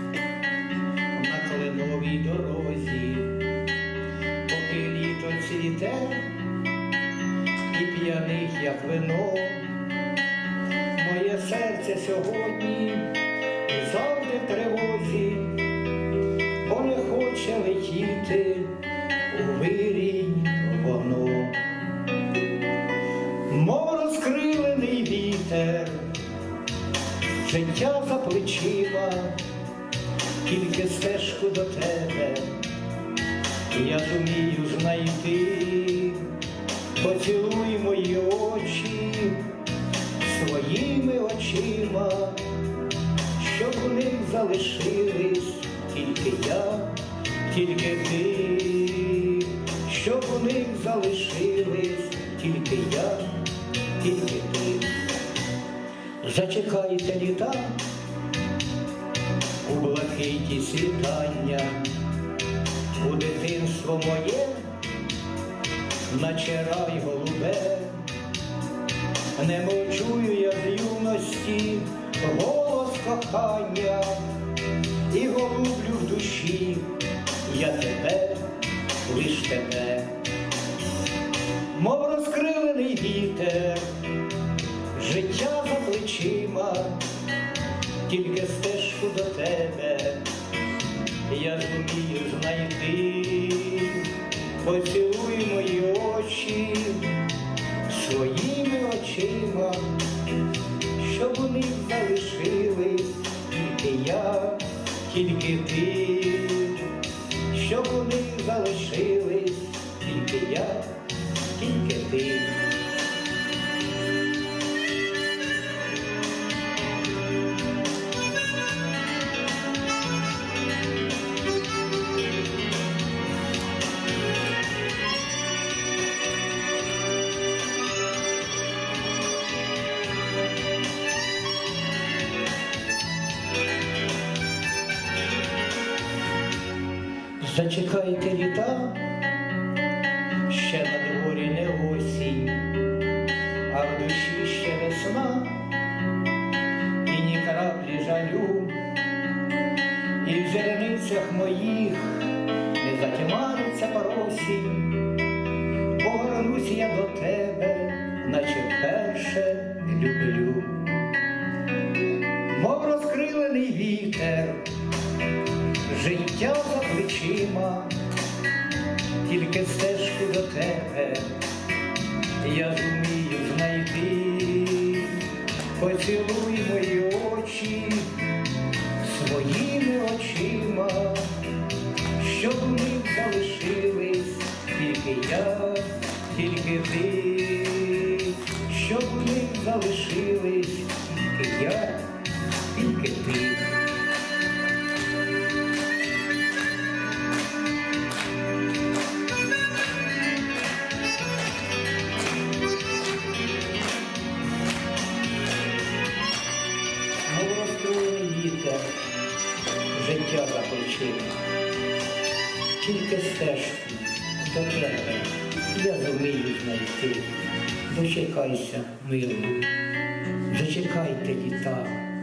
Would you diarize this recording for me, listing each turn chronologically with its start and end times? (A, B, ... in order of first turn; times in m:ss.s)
0:01.1-0:03.5 A
0:04.5-0:06.4 A
0:07.7-0:09.7 A
0:10.9-0:13.1 A
0:13.6-0:15.7 A
0:16.6-0:18.8 A
0:19.3-0:21.6 A
0:23.5-0:26.2 A
0:27.4-0:29.4 A
0:30.4-0:32.6 A
0:33.7-0:36.4 A
0:37.0-0:39.5 A
0:40.2-0:42.6 A
0:43.4-0:55.0 A
0:56.2-0:57.8 A
0:59.6-1:01.9 A
1:03.0-1:04.7 A
1:06.1-1:08.2 A
1:09.3-1:14.3 A
1:15.1-1:18.5 A
1:19.0-1:20.1 A
1:21.7-1:23.9 A
1:24.9-1:27.0 A
1:28.0-1:30.3 A
1:31.3-1:37.3 A
1:37.9-1:40.0 A
1:40.9-1:47.0 A
1:47.5-1:51.0 A
1:51.5-1:52.7 A
2:17.4-2:19.1 A
2:20.4-2:22.8 A
2:23.7-2:25.7 A
2:27.0-2:28.8 A
2:30.2-2:35.2 A
2:35.9-2:41.0 A
2:42.4-2:44.7 A
2:45.8-2:47.9 A
2:49.2-2:51.4 A
2:52.4-2:58.3 A
2:59.0-3:01.4 A
3:02.2-3:12.1 A
3:12.7-3:13.8 A
3:27.2-3:28.9 A
3:29.9-3:31.4 A
3:32.8-3:37.3 A
3:37.9-3:39.7 A
3:40.4-3:42.1 A